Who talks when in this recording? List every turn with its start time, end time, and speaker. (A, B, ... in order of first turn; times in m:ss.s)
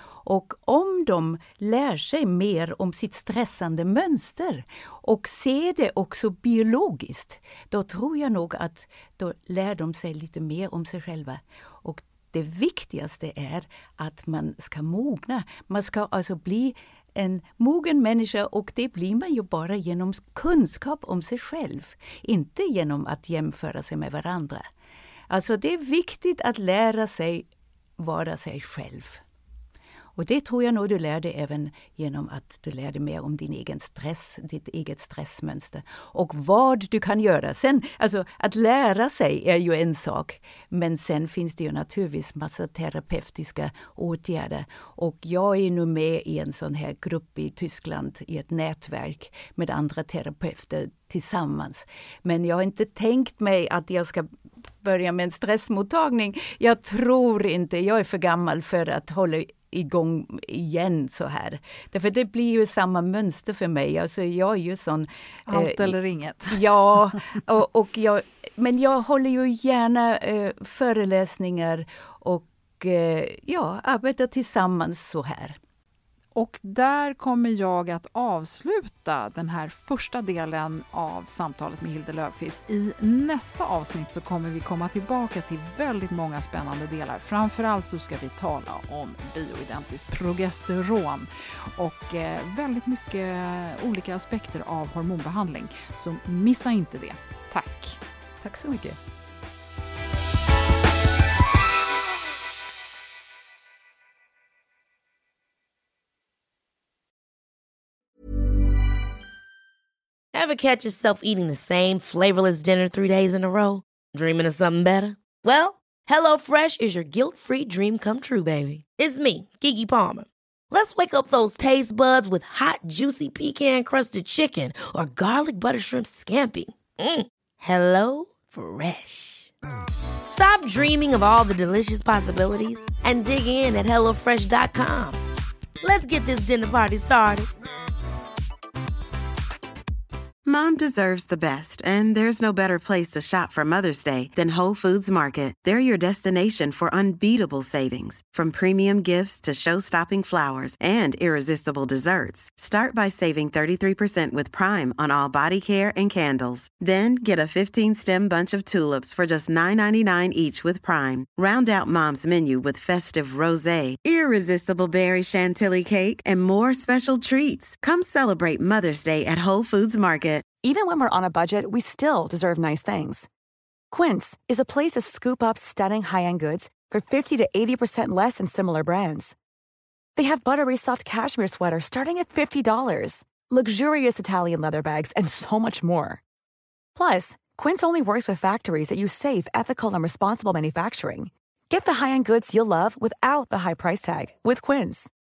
0:00.2-0:24.7 A
0:25.3-0:29.2 A
0:30.2-0:54.3 A
0:54.8-1:06.0 A
1:05.5-1:06.8 B
1:06.5-1:15.6 A
1:16.4-1:38.0 B
1:38.4-1:39.0 A
1:50.3-2:09.5 C
2:10.3-2:15.2 C
2:15.8-2:17.5 C
2:20.4-2:50.4 D
2:50.6-2:53.3 E
2:53.9-2:59.4 E
3:00.2-3:06.2 E
3:07.0-3:15.1 E